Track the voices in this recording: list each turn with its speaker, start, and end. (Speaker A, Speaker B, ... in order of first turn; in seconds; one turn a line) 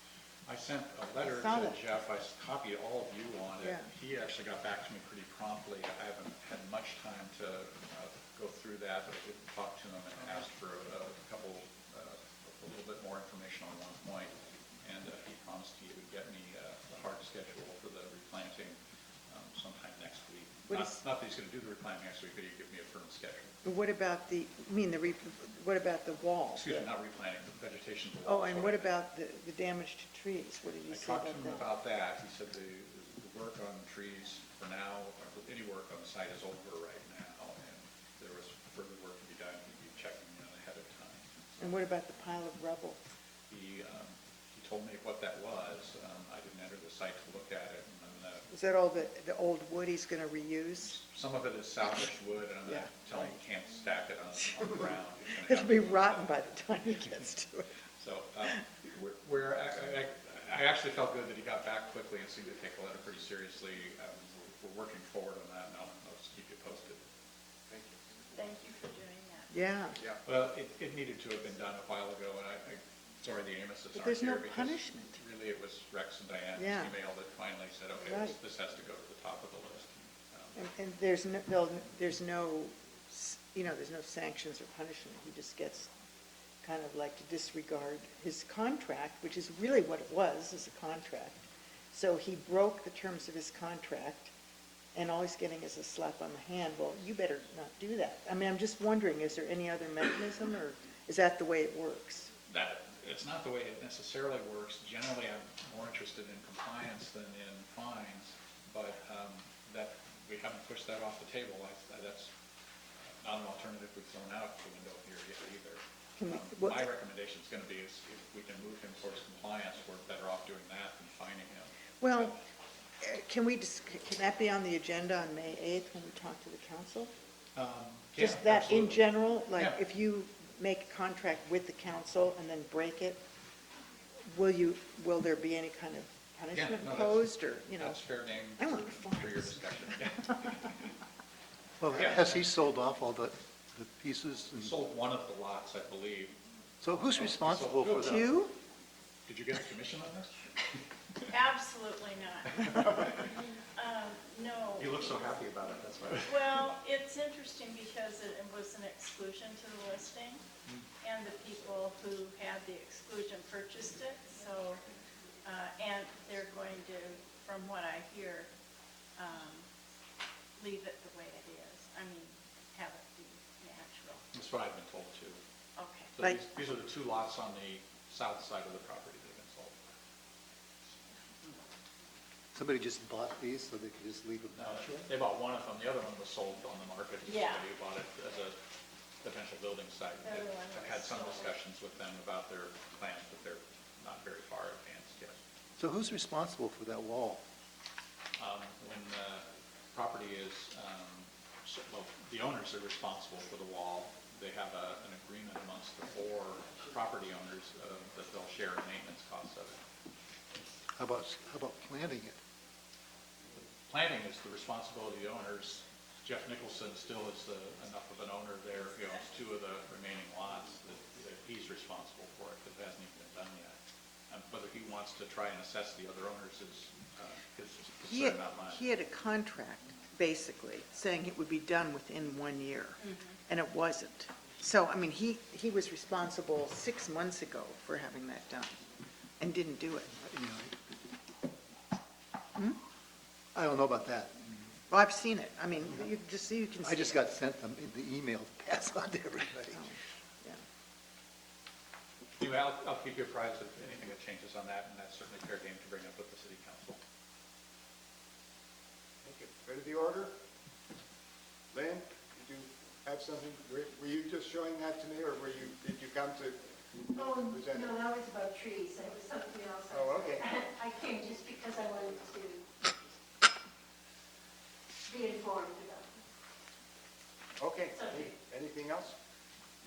Speaker A: 0.5-23.6
Speaker B: 1.2-1.8
Speaker B: 3.6-3.9
Speaker B: 20.7-21.0
Speaker B: 23.6-26.9
Speaker A: 26.6-28.9
Speaker B: 28.2-31.7
Speaker A: 30.9-41.3
Speaker B: 41.6-43.0
Speaker A: 43.5-48.5
Speaker B: 48.5-51.0
Speaker A: 50.9-56.4
Speaker B: 52.6-53.4
Speaker B: 54.4-57.7
Speaker A: 58.0-67.0
Speaker C: 67.7-68.0
Speaker D: 68.3-69.5
Speaker B: 69.5-70.0
Speaker A: 70.2-80.6
Speaker B: 73.9-75.2
Speaker B: 76.6-77.0
Speaker B: 78.0-78.4
Speaker B: 80.5-85.9
Speaker B: 86.6-94.3
Speaker B: 94.9-102.3
Speaker A: 102.5-112.3
Speaker A: 113.2-122.4
Speaker B: 116.2-116.9
Speaker B: 122.0-122.4
Speaker B: 123.0-127.1
Speaker A: 127.5-129.8
Speaker B: 128.2-133.2
Speaker B: 134.3-140.5
Speaker A: 136.5-140.9
Speaker E: 141.8-144.8
Speaker A: 141.9-142.5
Speaker A: 144.6-146.4
Speaker E: 146.8-148.3
Speaker A: 147.1-148.5
Speaker B: 148.0-148.6
Speaker A: 149.3-150.6
Speaker D: 151.3-155.3
Speaker A: 152.6-153.3
Speaker A: 154.8-156.8
Speaker D: 156.2-160.5
Speaker D: 161.0-164.8
Speaker D: 165.4-168.5
Speaker D: 169.2-169.7
Speaker D: 170.6-174.2
Speaker A: 174.3-175.4
Speaker D: 175.8-176.2
Speaker A: 176.1-179.8
Speaker E: 182.5-185.1
Speaker A: 184.5-188.6
Speaker D: 187.3-187.7
Speaker A: 189.2-195.4
Speaker D: 190.2-191.6
Speaker E: 195.8-197.4
Speaker A: 198.4-209.8
Speaker E: 211.0-212.4
Speaker A: 213.8-223.8
Speaker A: 224.3-228.8
Speaker B: 228.1-238.9
Speaker D: 233.0-233.4
Speaker B: 239.4-240.2
Speaker E: 240.1-240.8
Speaker E: 243.6-244.7
Speaker B: 244.9-247.3
Speaker E: 246.8-249.8
Speaker B: 249.7-250.6
Speaker A: 252.4-257.0
Speaker C: 259.2-260.4
Speaker C: 261.7-266.6
Speaker C: 267.1-268.1
Speaker F: 267.2-272.6
Speaker D: 269.0-269.7
Speaker C: 269.9-270.6
Speaker D: 271.3-272.0
Speaker F: 275.3-275.9
Speaker C: 277.6-279.2